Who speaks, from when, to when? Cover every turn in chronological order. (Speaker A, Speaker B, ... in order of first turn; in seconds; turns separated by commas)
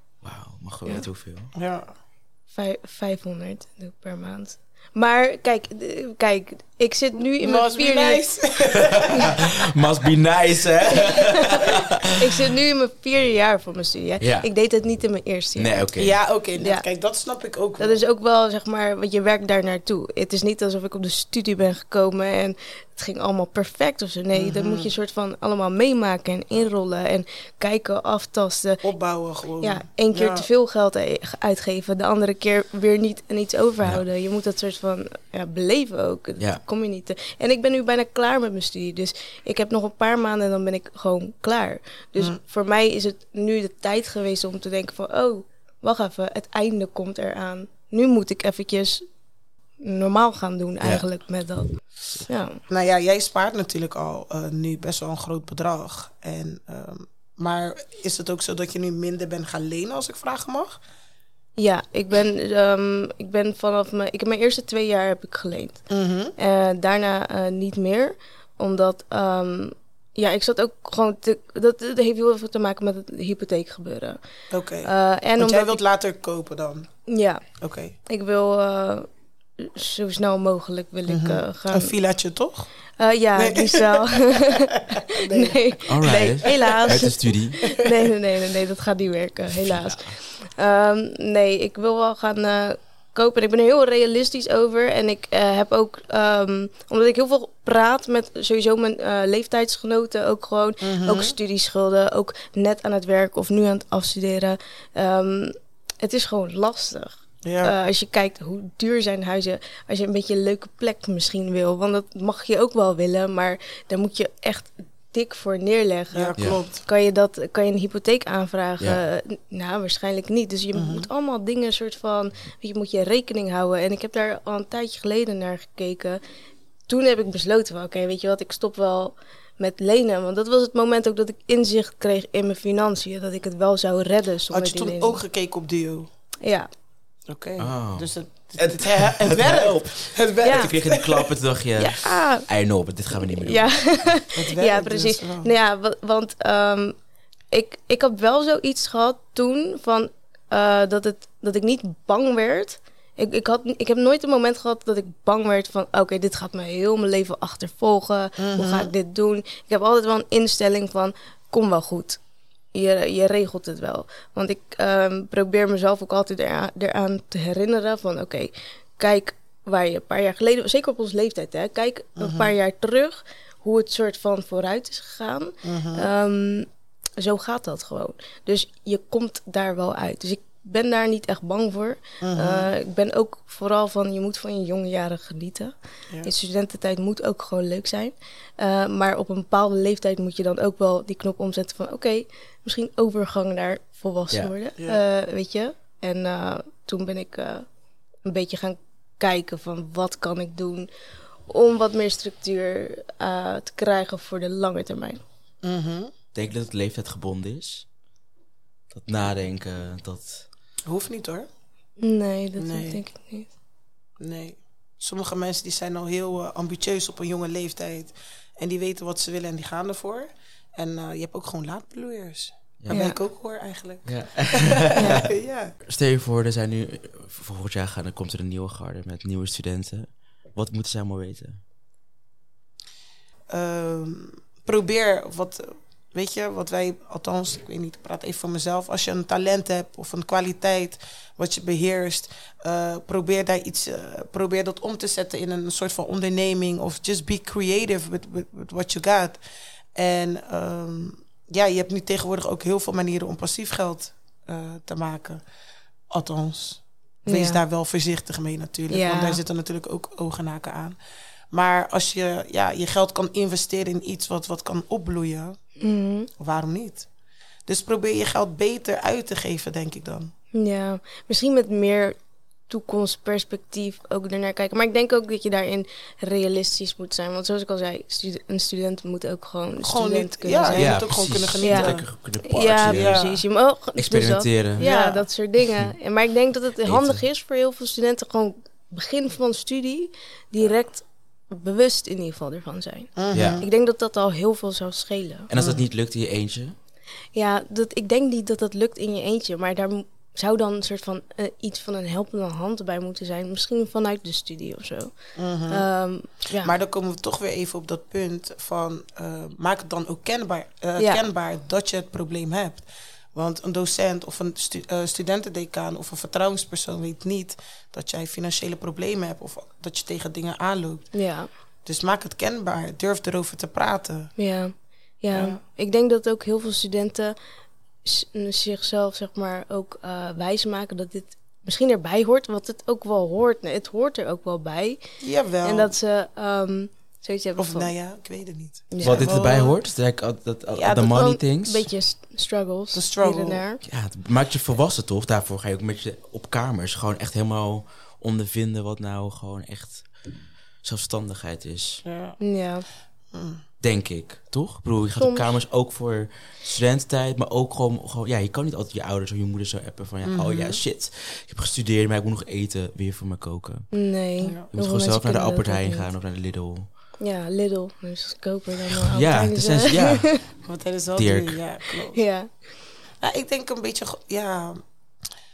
Speaker A: 0.2-1.5, Speaker B: 1.5-1.9, Speaker C: 2.5-8.2, Speaker B: 7.4-9.5, Speaker A: 8.9-12.2, Speaker C: 10.9-11.6, Speaker C: 12.2-15.8, Speaker A: 14.2-14.5, Speaker A: 15.6-16.2, Speaker B: 16.0-18.0, Speaker C: 16.6-16.8, Speaker C: 17.8-28.8, Speaker B: 24.3-24.9, Speaker B: 28.8-30.5, Speaker C: 29.6-49.0, Speaker C: 49.8-51.7, Speaker C: 52.3-52.6, Speaker B: 52.7-60.8, Speaker C: 61.6-74.2, Speaker B: 65.9-66.3, Speaker B: 74.5-76.9, Speaker C: 74.8-75.8, Speaker C: 77.1-77.4, Speaker B: 77.6-77.9, Speaker C: 78.0-81.9, Speaker B: 81.1-82.7, Speaker C: 83.0-126.2, Speaker B: 83.3-87.0, Speaker A: 85.9-87.7, Speaker A: 89.6-90.2, Speaker B: 100.8-101.3, Speaker B: 107.4-107.7, Speaker B: 116.1-116.8, Speaker B: 120.7-121.1, Speaker C: 126.9-135.2, Speaker B: 134.5-136.1, Speaker C: 136.4-136.7, Speaker B: 137.3-141.3, Speaker A: 137.6-144.1, Speaker C: 140.4-140.7, Speaker C: 141.8-142.5, Speaker C: 143.2-146.9, Speaker B: 144.3-145.5, Speaker C: 147.5-162.2, Speaker B: 158.4-158.9, Speaker C: 162.7-197.7, Speaker B: 172.2-172.5, Speaker B: 175.6-176.1, Speaker B: 182.2-182.7, Speaker C: 198.2-200.9, Speaker C: 201.5-205.2, Speaker B: 205.6-206.1, Speaker A: 206.3-207.9, Speaker A: 208.9-210.5, Speaker B: 210.9-211.5, Speaker C: 212.0-213.5, Speaker B: 212.6-213.0, Speaker B: 214.2-225.7, Speaker A: 222.8-223.1, Speaker C: 222.9-223.2, Speaker A: 224.0-225.3, Speaker A: 225.8-231.6, Speaker B: 233.5-249.4, Speaker B: 249.9-255.4, Speaker B: 256.1-260.9, Speaker C: 257.2-257.6, Speaker C: 258.9-259.4, Speaker B: 261.5-265.6, Speaker C: 265.8-266.3, Speaker B: 266.4-267.1, Speaker B: 267.7-270.3, Speaker C: 270.5-295.5, Speaker B: 279.8-282.1, Speaker A: 280.7-283.2, Speaker B: 282.8-283.4, Speaker A: 283.9-284.9, Speaker B: 284.8-285.2, Speaker A: 286.8-287.2, Speaker B: 293.2-293.6, Speaker A: 293.3-293.6, Speaker A: 295.5-296.7, Speaker C: 297.3-306.7, Speaker B: 305.4-305.8, Speaker B: 306.6-321.2, Speaker C: 311.0-311.2, Speaker C: 321.1-321.5, Speaker B: 321.8-324.3, Speaker C: 324.4-327.4, Speaker B: 325.3-325.6, Speaker C: 328.0-335.0, Speaker B: 335.2-335.9, Speaker C: 335.6-337.9, Speaker B: 337.6-339.8, Speaker C: 338.9-339.3, Speaker A: 339.0-341.9, Speaker C: 340.9-343.8, Speaker B: 342.9-343.6, Speaker A: 343.8-350.3, Speaker A: 350.8-352.0, Speaker B: 352.0-352.4, Speaker C: 352.4-352.8, Speaker B: 353.3-353.6, Speaker A: 353.8-364.0, Speaker C: 355.2-355.5, Speaker B: 360.2-360.8, Speaker C: 363.9-366.1, Speaker A: 364.7-366.9, Speaker C: 367.2-370.4, Speaker A: 369.0-370.5, Speaker B: 370.6-372.2, Speaker A: 371.1-371.6, Speaker C: 372.1-372.5, Speaker B: 373.2-374.8